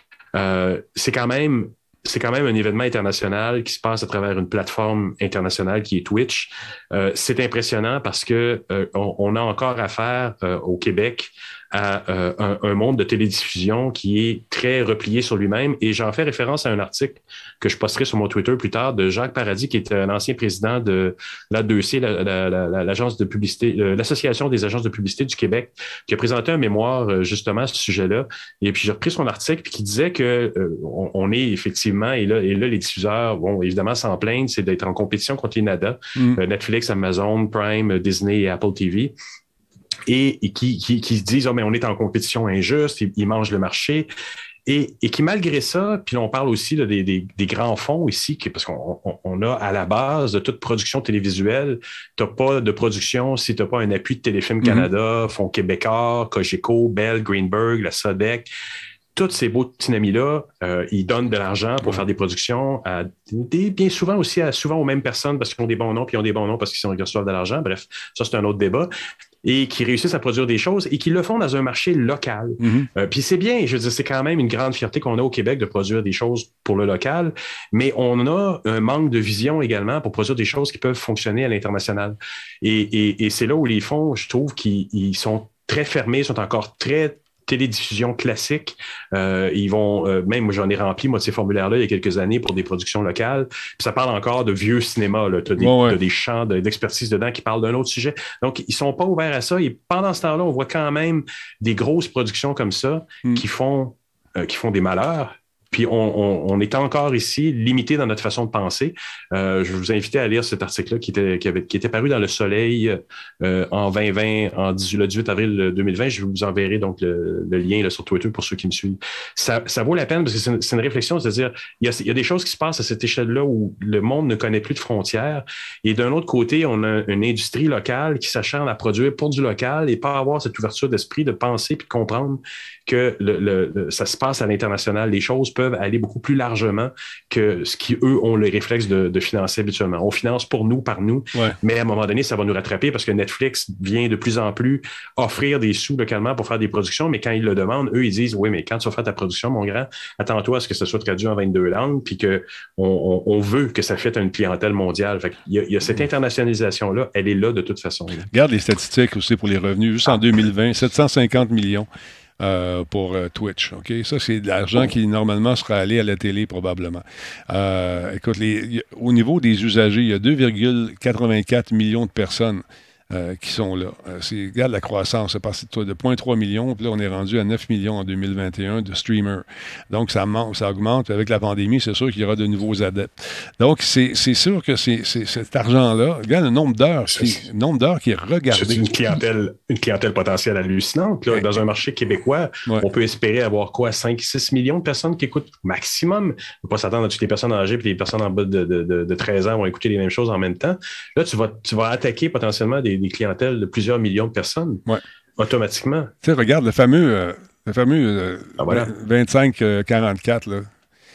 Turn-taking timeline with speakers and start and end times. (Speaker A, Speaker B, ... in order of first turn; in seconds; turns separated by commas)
Speaker A: 0.3-39.1, Speaker B: 36.1-36.4, Speaker A: 40.1-44.1, Speaker A: 44.6-58.5, Speaker B: 54.6-54.9, Speaker A: 59.1-68.9, Speaker A: 69.4-158.3, Speaker B: 72.6-72.9, Speaker B: 95.6-96.0, Speaker B: 158.3-161.9, Speaker B: 162.4-188.9, Speaker A: 187.1-187.4, Speaker A: 188.5-204.8, Speaker A: 205.4-206.1, Speaker B: 206.2-210.7, Speaker A: 208.6-208.9